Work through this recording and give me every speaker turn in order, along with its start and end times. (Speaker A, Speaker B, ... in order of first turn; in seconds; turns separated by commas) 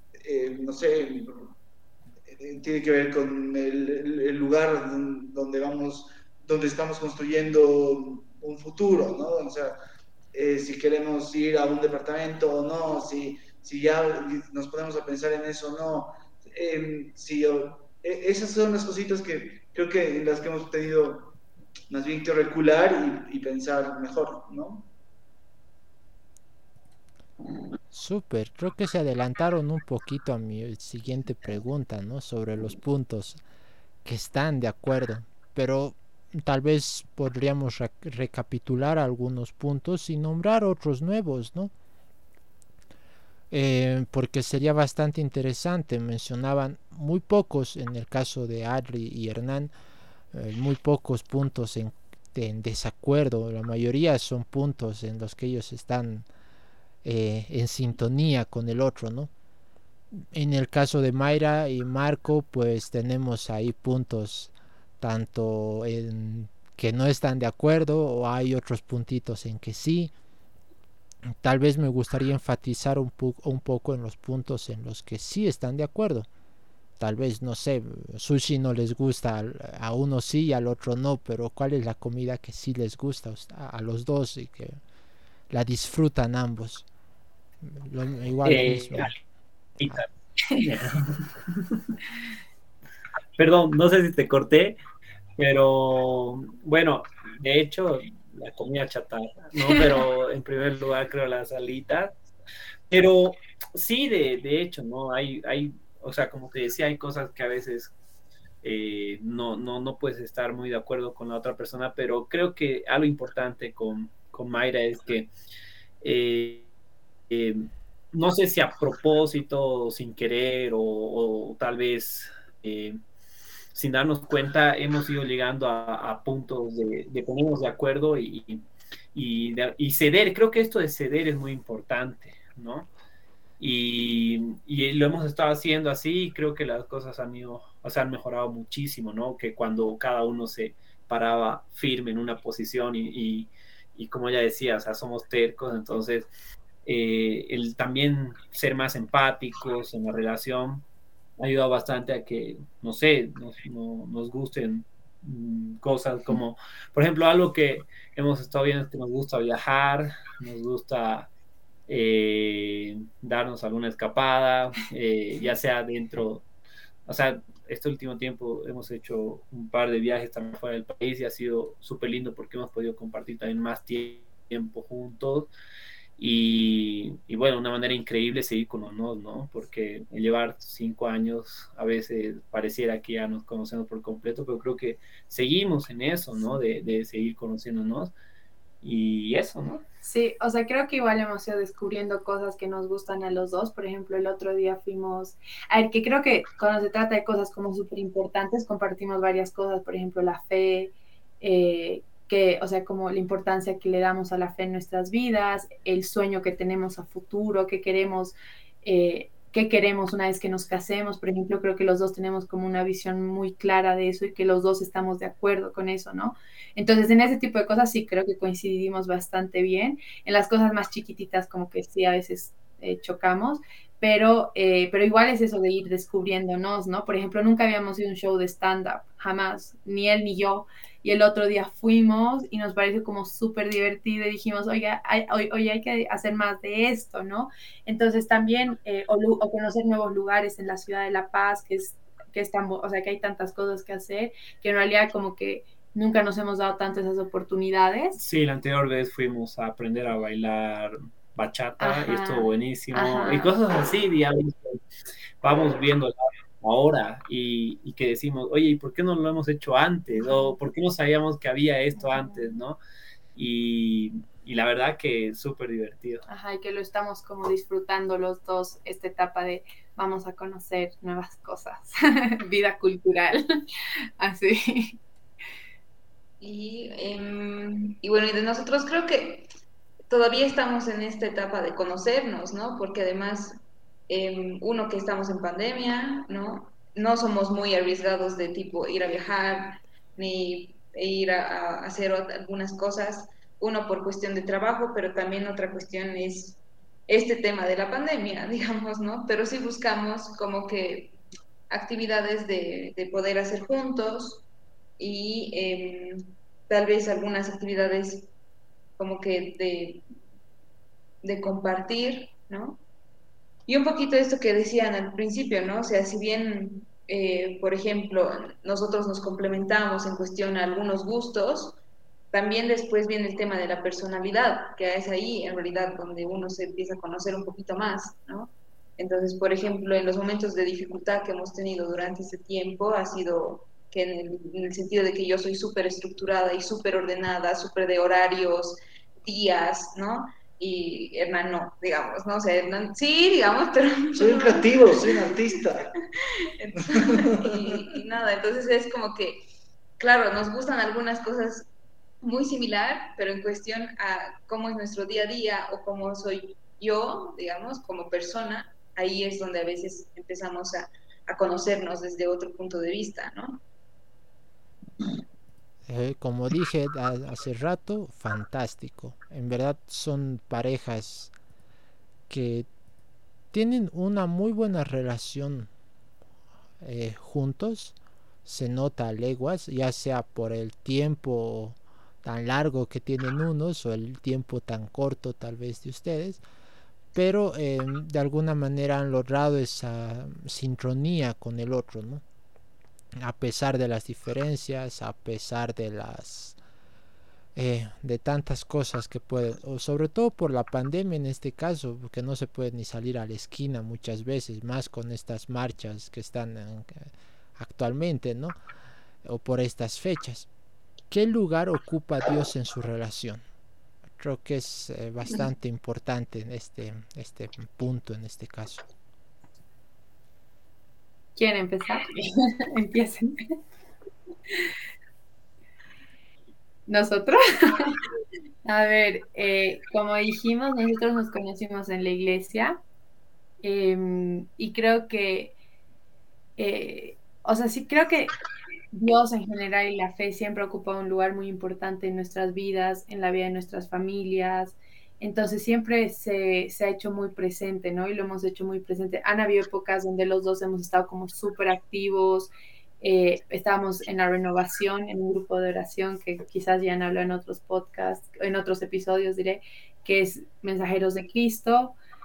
Speaker A: 0.2-1.6, Speaker A: 2.3-9.8, Speaker A: 10.3-21.4, Speaker A: 21.9-24.9, Speaker B: 27.9-33.4, Speaker B: 34.0-41.7, Speaker B: 43.5-49.7, Speaker B: 50.3-56.3, Speaker B: 57.0-59.3, Speaker B: 60.1-70.1, Speaker B: 71.4-76.3, Speaker B: 77.0-84.8, Speaker B: 85.5-86.8, Speaker B: 87.6-89.1, Speaker C: 88.4-89.2, Speaker C: 89.8-92.0, Speaker C: 93.4-94.8, Speaker C: 95.4-102.2, Speaker D: 99.6-99.9, Speaker C: 102.9-107.9, Speaker C: 108.6-115.3, Speaker C: 116.0-116.7, Speaker C: 117.3-123.0, Speaker C: 123.7-132.9, Speaker C: 133.6-146.3, Speaker C: 146.8-150.8, Speaker C: 151.4-161.3, Speaker C: 161.9-166.5, Speaker C: 167.1-175.5, Speaker C: 176.2-188.1, Speaker C: 188.8-189.8, Speaker D: 190.0-248.2, Speaker C: 248.2-254.8, Speaker D: 251.8-253.6, Speaker C: 255.4-262.8, Speaker D: 262.0-262.6, Speaker C: 263.4-266.2, Speaker D: 266.3-273.4, Speaker D: 274.2-275.0, Speaker E: 276.4-279.5, Speaker E: 280.1-301.1, Speaker E: 301.7-304.4, Speaker E: 305.0-308.3, Speaker E: 309.0-310.0, Speaker E: 311.2-312.8, Speaker E: 313.7-321.8, Speaker E: 322.3-345.9, Speaker A: 344.2-345.9, Speaker E: 346.6-349.4, Speaker A: 346.9-347.8, Speaker E: 350.0-351.7, Speaker E: 352.2-363.6, Speaker B: 365.9-371.3, Speaker B: 372.3-372.7, Speaker B: 373.5-375.7, Speaker B: 376.8-386.4, Speaker B: 387.1-392.2, Speaker B: 393.2-396.6, Speaker B: 397.6-408.6, Speaker B: 409.2-410.5, Speaker B: 411.1-413.4, Speaker B: 414.2-418.9, Speaker D: 421.4-423.6, Speaker D: 426.9-428.0, Speaker D: 428.6-432.8, Speaker D: 433.6-435.5, Speaker D: 436.6-438.3, Speaker D: 438.9-462.0